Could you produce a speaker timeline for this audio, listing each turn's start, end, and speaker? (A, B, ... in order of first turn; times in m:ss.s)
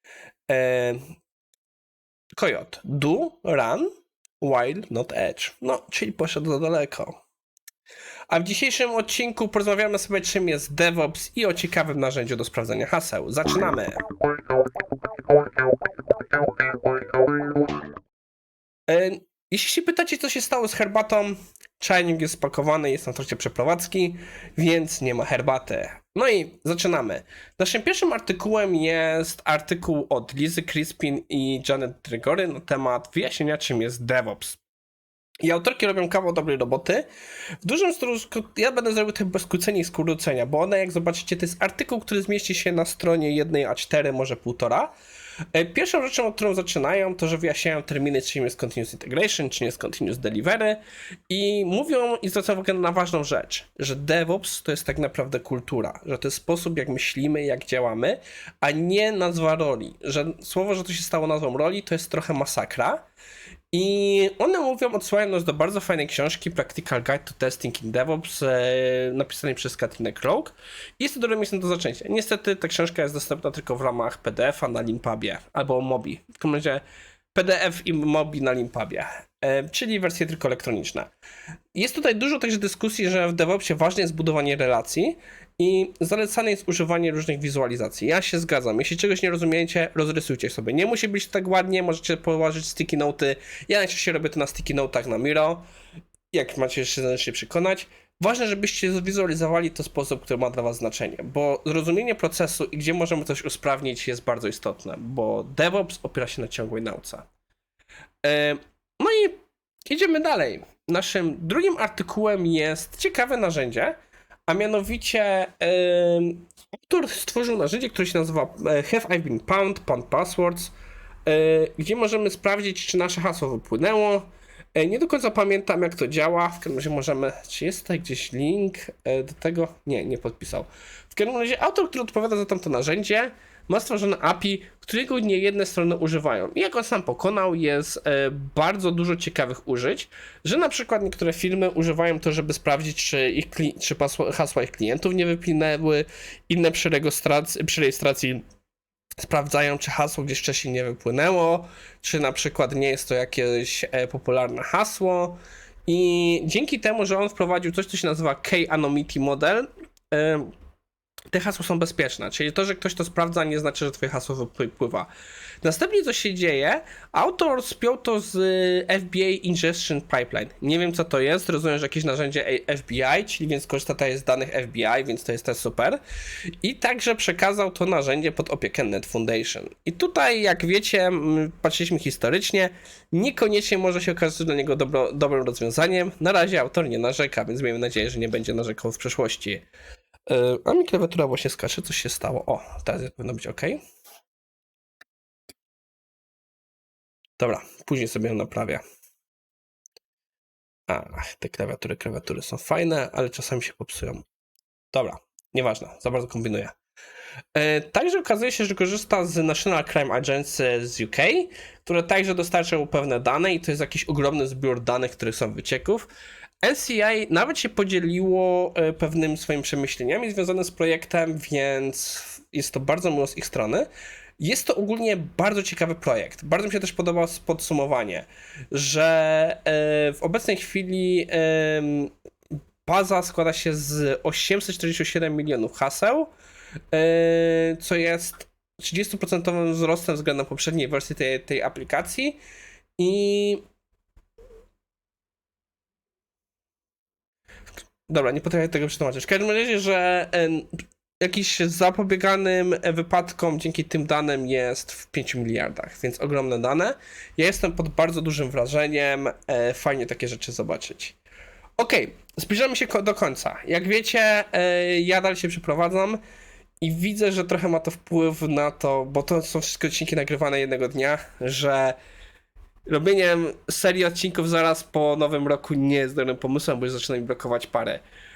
0:00.5-0:01.0 A
0:02.4-0:03.9 A
0:04.4-0:07.2 A
0:08.3-0:14.0 A
0:18.9-0:34.6 A
0:35.4-0:37.0 A
0:37.6-0:44.9 A
0:45.5-1:03.0 A
1:03.7-1:16.8 A
1:17.3-1:21.1 A
1:21.7-1:35.6 A
1:36.3-1:47.3 A
1:48.2-1:54.0 A
1:54.5-2:00.7 A
2:01.2-2:28.4 A
2:29.2-2:40.5 A
2:41.3-2:45.1 A
2:45.6-2:56.0 A
2:56.6-3:09.6 A
3:10.3-3:13.8 A
3:17.4-3:18.8 A
3:20.9-3:24.2 A
3:24.9-3:26.8 A
3:27.6-3:36.1 A
3:36.6-3:52.1 A
3:52.8-3:56.3 A
3:56.9-4:02.4 A
4:03.0-4:03.6 A
4:08.1-4:10.7 A
4:11.2-4:21.2 A
4:21.8-4:26.2 A
4:26.8-4:32.0 A
4:32.9-4:38.0 A